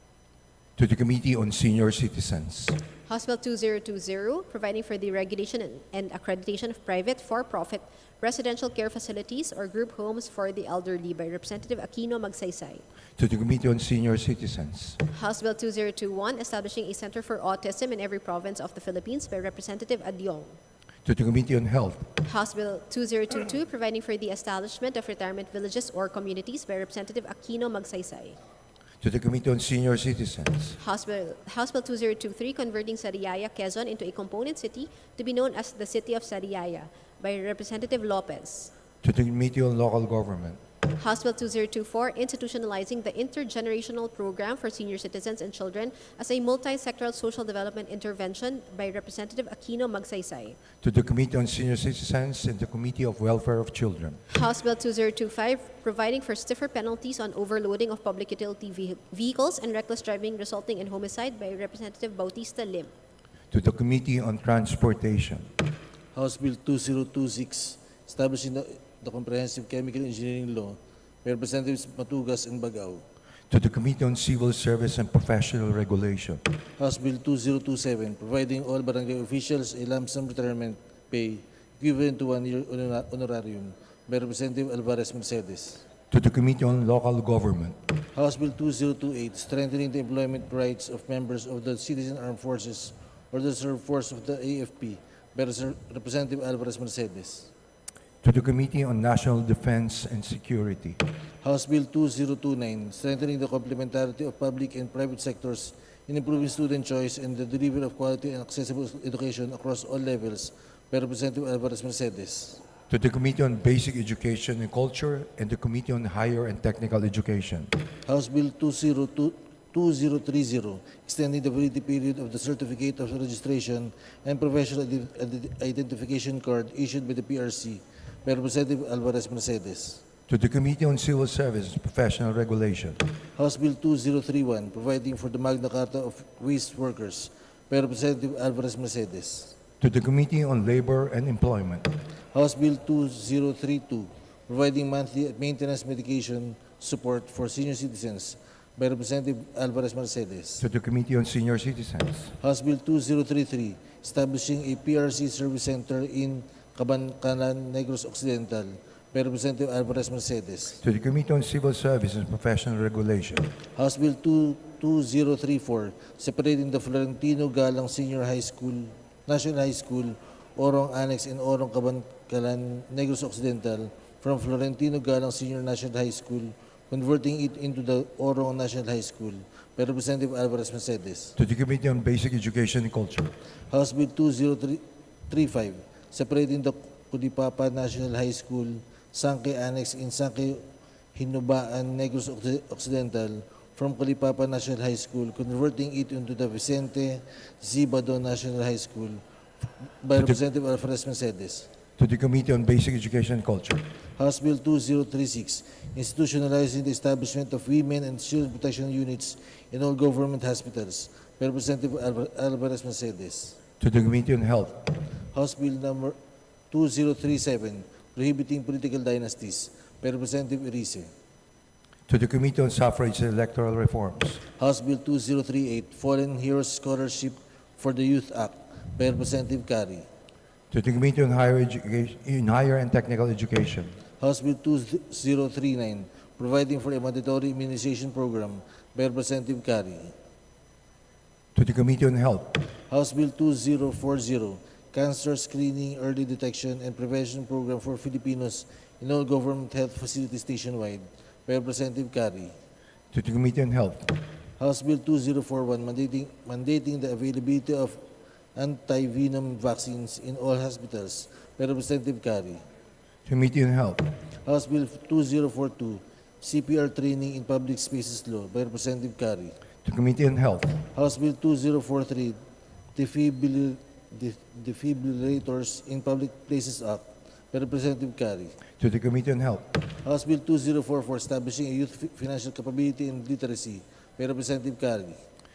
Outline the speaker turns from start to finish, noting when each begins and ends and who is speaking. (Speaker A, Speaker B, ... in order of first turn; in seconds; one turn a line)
Speaker A: 0.8-2.8
Speaker B: 3.1-12.8
Speaker A: 13.2-15.0
Speaker B: 15.1-20.6
Speaker A: 21.1-22.1
Speaker B: 22.2-28.4
Speaker A: 29.0-30.8
Speaker B: 30.8-38.7
Speaker A: 39.0-40.6
Speaker B: 41.0-50.6
Speaker A: 50.8-54.2
Speaker B: 54.3-62.9
Speaker A: 63.5-65.5
Speaker C: 66.1-73.0
Speaker A: 73.5-76.4
Speaker C: 76.8-85.8
Speaker A: 86.1-87.8
Speaker C: 88.1-97.5
Speaker A: 98.2-101.0
Speaker C: 101.4-112.6
Speaker A: 112.9-117.7
Speaker C: 118.0-130.0
Speaker A: 130.3-133.0
Speaker C: 133.3-139.6
Speaker A: 139.8-141.9
Speaker C: 142.3-150.7
Speaker A: 150.6-152.3
Speaker C: 152.4-160.8
Speaker A: 160.8-163.5
Speaker C: 163.8-181.3
Speaker A: 181.3-183.3
Speaker C: 183.7-190.6
Speaker C: 191.2-199.2
Speaker C: 200.0-201.7
Speaker A: 202.0-203.8
Speaker C: 204.2-213.6
Speaker A: 213.8-214.8
Speaker C: 215.3-216.2
Speaker C: 216.7-221.1
Speaker A: 222.1-224.4
Speaker C: 224.6-230.1
Speaker A: 230.7-234.0
Speaker C: 234.2-240.1
Speaker A: 241.5-242.6
Speaker C: 242.9-252.5
Speaker A: 253.1-254.1
Speaker C: 254.6-258.0
Speaker C: 258.6-262.6
Speaker A: 263.3-264.1
Speaker C: 264.4-269.6
Speaker A: 269.8-270.8
Speaker C: 270.9-272.4
Speaker C: 272.9-278.6
Speaker A: 278.8-279.7
Speaker C: 280.0-285.2